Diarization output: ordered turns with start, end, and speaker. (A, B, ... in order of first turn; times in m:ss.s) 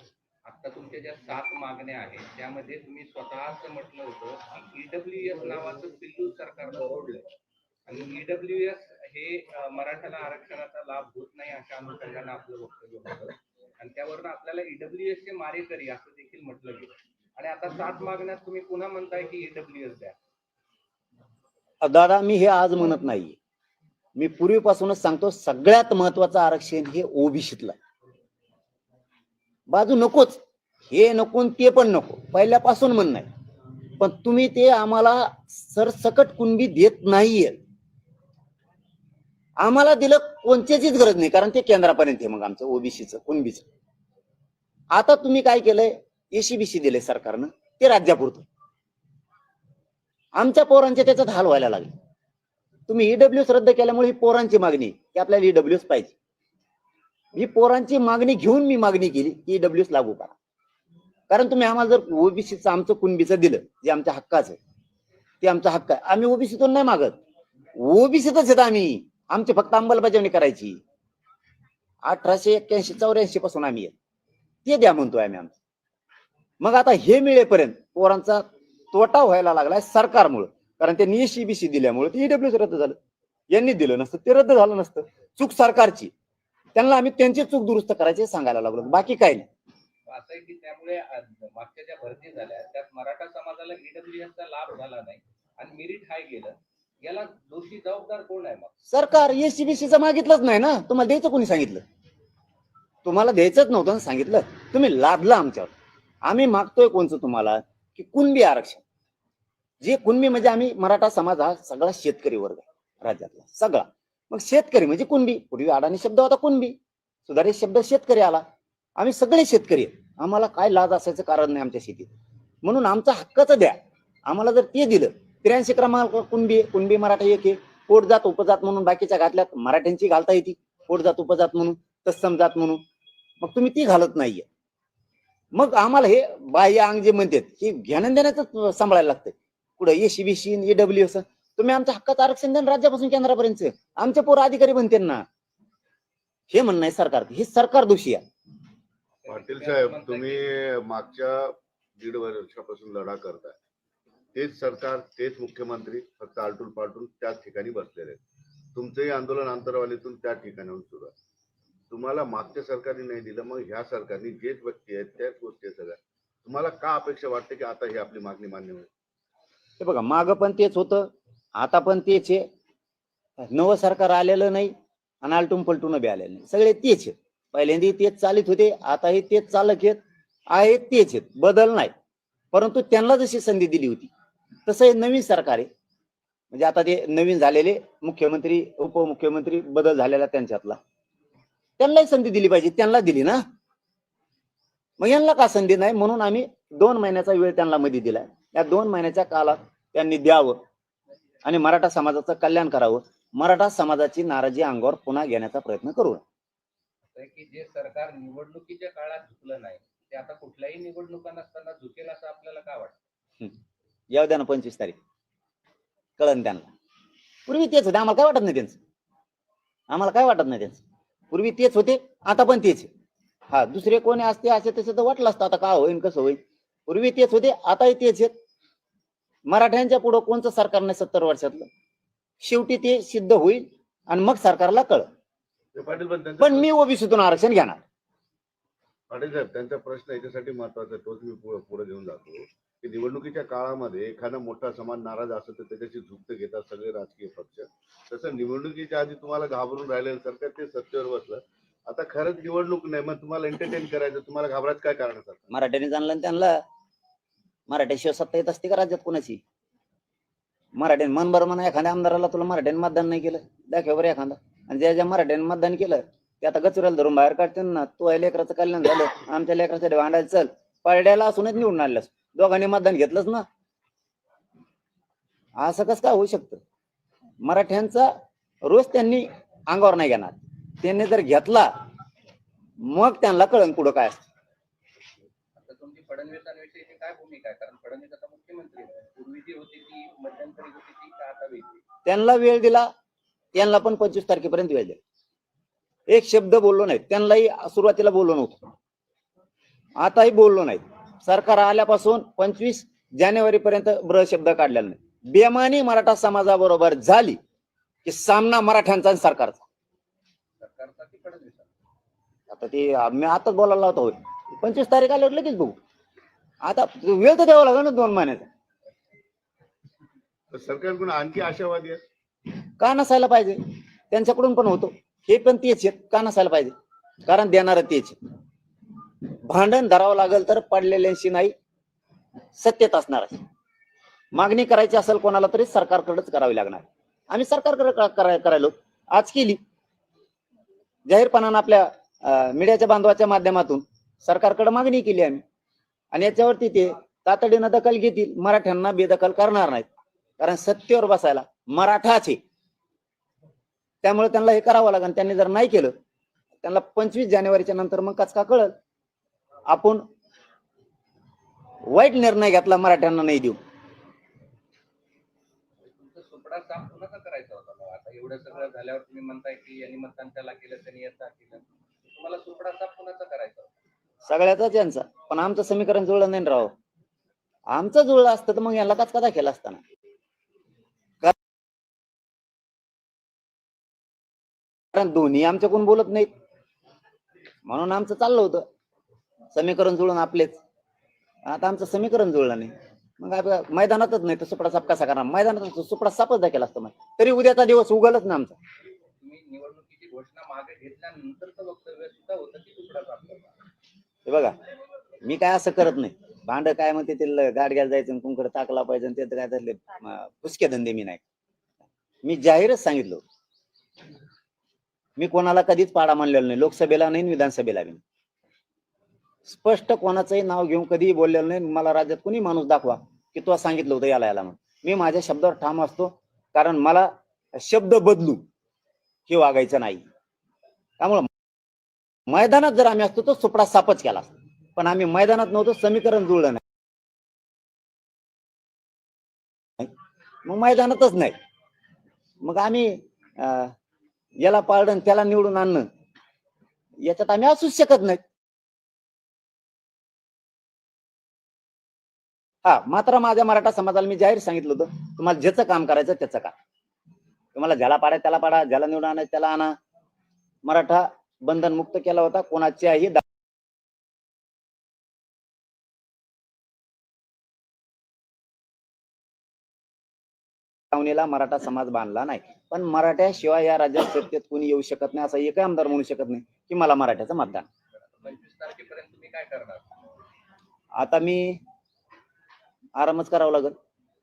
0:00.4-0:07.3 A
0:07.9-0:20.2 A
0:21.8-0:23.4 B
0:24.2-0:27.8 B
0:29.7-0:33.3 B
0:34.0-0:37.6 B
0:39.6-0:43.7 B
0:44.9-0:48.5 B
0:50.4-0:51.9 B
0:52.9-0:56.2 B
0:57.4-1:00.3 B
1:01.3-1:04.6 B
1:05.4-1:07.2 B
1:07.8-1:10.8 B
1:12.0-1:13.9 B
1:14.6-1:15.6 B
1:16.6-1:23.0 B
1:23.5-1:26.1 B
1:26.8-1:29.5 B
1:30.1-1:38.7 A
1:38.9-1:41.8 B
1:43.0-1:45.7 B
1:46.2-1:48.8 B
1:49.8-1:58.4 B
1:59.0-2:02.1 B
2:02.6-2:12.8 B
2:13.4-2:14.4 B
2:15.5-2:25.2 B
2:26.5-2:28.2 B
2:29.2-2:30.6 A
2:29.3-2:33.6 C
2:34.3-2:38.2 C
2:38.7-2:41.1 C
2:41.9-2:48.9 C
2:49.8-2:52.4 B
2:53.4-3:00.0 B
3:00.5-3:01.9 B
3:02.5-3:04.1 B
3:04.7-3:05.7 B
3:06.5-3:10.8 B
3:11.8-3:13.4 B
3:15.0-3:20.6 B
3:21.4-3:26.2 B
3:27.2-3:33.0 A
3:34.1-3:35.0 B
3:36.2-3:36.7 B
3:37.5-3:38.8 B
3:39.9-3:42.9 B
3:43.5-3:48.3 B
3:49.5-3:51.7 B
3:52.4-3:55.1 B
3:55.8-3:56.7 C
3:56.4-3:57.8 B
3:59.1-4:15.5 C
4:15.5-4:16.6 B
4:17.7-4:19.4 B
4:20.8-4:33.5 B
4:35.6-4:36.6 B
4:37.4-4:38.1 B
4:38.6-4:41.7 B
4:42.8-4:44.3 B
4:45.6-4:51.8 A
4:52.1-4:52.9 B
4:53.6-4:55.0 B
4:56.1-4:58.7 B
5:00.0-5:07.4 B
5:08.0-5:09.6 B
5:10.6-5:11.7 A
5:12.5-5:15.8 B
5:16.6-5:18.5 B
5:20.5-5:22.0 C
5:22.8-5:23.6 B
5:24.1-5:26.7 B
5:27.3-5:28.2 B
5:29.4-5:31.5 B
5:32.6-5:33.4 B
5:34.3-5:39.6 B
5:41.1-5:45.4 B
5:46.1-5:49.9 B
5:50.4-5:52.4 B
5:54.0-5:55.9 B
5:56.6-5:58.8 B
5:59.7-6:00.0 B
6:01.9-6:03.6 B
6:05.8-6:13.7 A
6:14.3-6:16.7 B
6:17.7-6:19.8 B
6:24.9-6:26.3 B
6:27.7-6:28.7 B
6:29.5-6:30.6 B
6:31.5-6:38.6 B
6:39.2-6:43.6 A
6:44.3-6:44.6 B
6:45.2-6:51.2 B
6:52.2-6:53.2 B
6:55.2-6:58.0 B
6:59.5-7:08.4 B
7:09.3-7:10.0 B
7:11.0-7:11.3 B
7:12.3-7:16.6 B
7:20.4-7:21.4 B
7:22.4-7:23.8 B
7:24.4-7:25.9 B
7:27.0-7:28.2 B
7:32.6-7:36.6 B
7:37.6-7:39.8 B
7:40.6-7:43.2 B
7:50.9-7:57.7 B
7:58.0-8:00.0 A
8:01.0-8:01.6 B
8:03.0-8:03.8 B